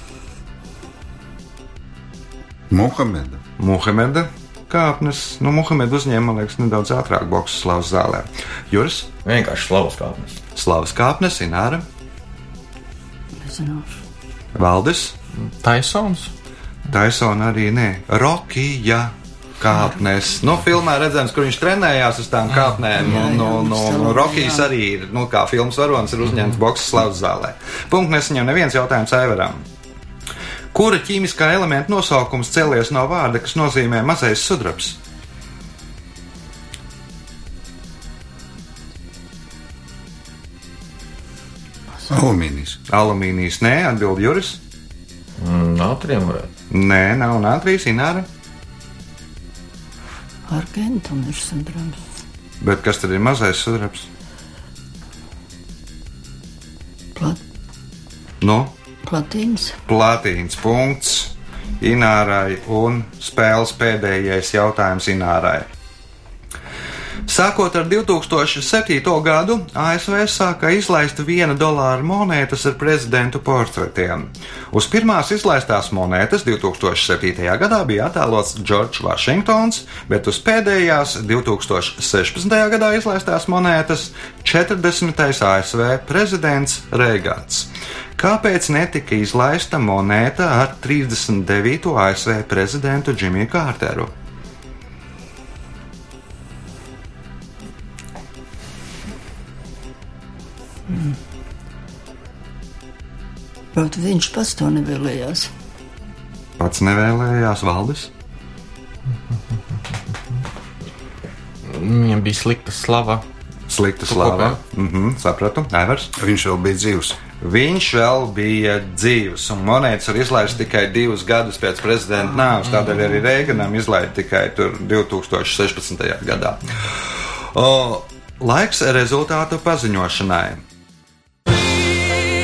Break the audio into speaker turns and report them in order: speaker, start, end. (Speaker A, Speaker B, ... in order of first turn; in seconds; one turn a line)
Speaker A: 2.7-3.4
Speaker B: 3.6-9.1
Speaker C: 9.2-10.4
Speaker B: 10.6-11.8
Speaker D: 13.4-14.0
Speaker B: 14.5-15.1
Speaker E: 15.3-16.3
Speaker B: 16.9-29.6
Speaker D: 23.0-24.7
Speaker B: 30.7-35.0
Speaker A: 42.1-42.8
Speaker B: 42.9-44.6
Speaker C: 45.4-46.5
Speaker B: 46.7-48.3
Speaker D: 50.5-52.0
Speaker B: 52.6-54.1
Speaker D: 57.1-57.4
Speaker B: 58.4-58.7
Speaker D: 59.0-59.8
Speaker B: 59.9-65.7
Speaker B: 67.2-94.1
Speaker D: 103.7-105.5
Speaker B: 106.6-108.1
Speaker E: 111.6-113.2
Speaker B: 113.7-116.1
Speaker E: 114.1-114.6
Speaker A: 116.2-117.2
Speaker B: 117.4-126.8
Speaker B: 127.5-130.6